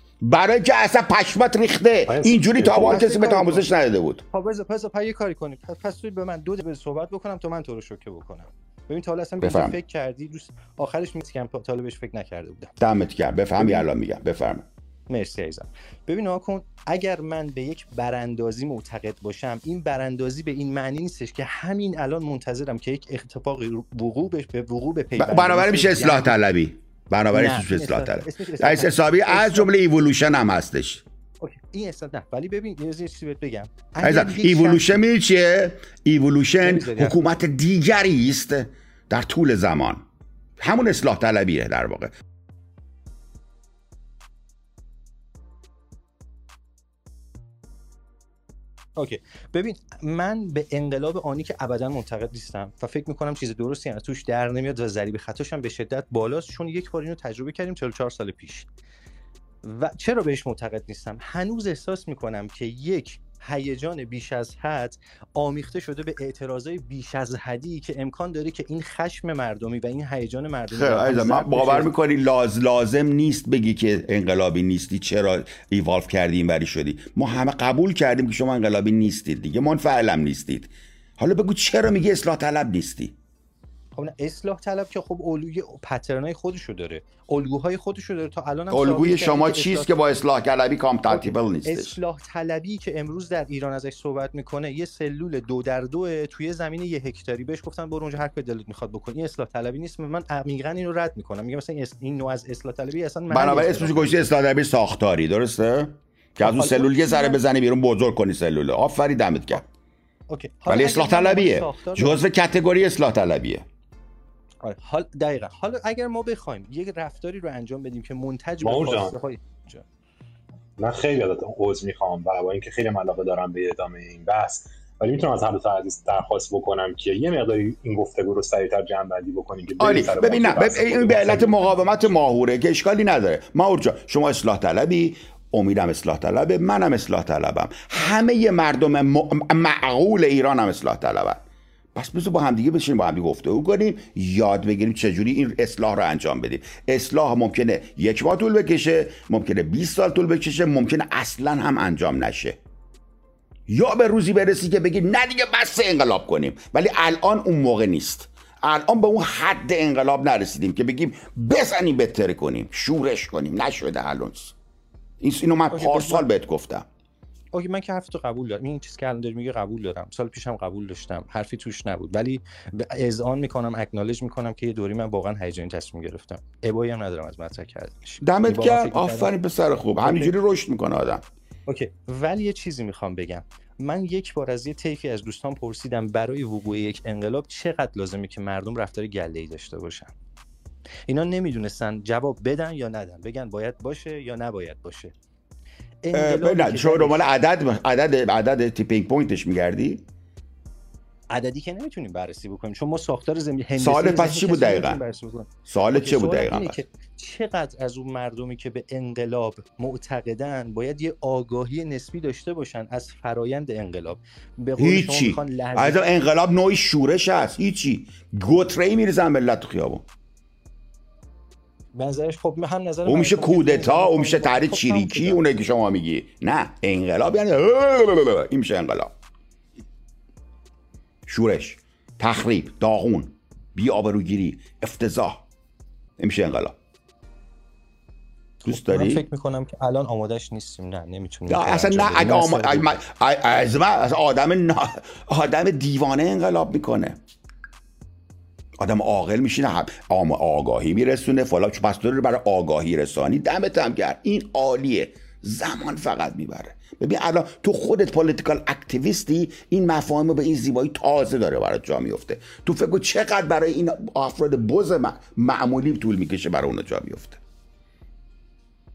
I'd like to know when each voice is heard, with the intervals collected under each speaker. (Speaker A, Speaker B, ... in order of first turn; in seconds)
Speaker A: 0.2-4.2, 9.4-9.8, 12.8-14.7, 25.2-31.0, 34.0-40.0, 40.6-42.1, 70.7-83.2, 88.7-92.0, 103.3-109.6, 110.7-113.7, 129.8-141.4, 141.9-152.6, 153.7-164.6, 165.2-166.9, 178.2-181.2, 196.1-200.0, 203.8-205.0, 205.7-206.8, 214.8-220.1, 223.1-229.1, 231.3-235.4, 236.2-236.8, 238.7-239.2, 241.5-247.2, 248.8-267.4
Speaker B: 2.1-3.0, 118.6-119.1, 120.8-131.7
Speaker C: 2.8-3.7, 4.3-12.7, 13.6-13.9, 15.1-26.4, 27.3-29.7, 31.4-35.0, 36.6-37.2, 49.0-58.7, 59.6-71.9, 84.0-89.9, 91.1-104.3, 106.4-107.4, 110.3-112.2, 114.6-119.8, 165.7-166.3, 167.5-179.3, 180.0-180.3, 181.7-190.1, 191.1-195.1, 196.0-197.2, 201.3-216.0, 221.9-225.5, 238.6-243.0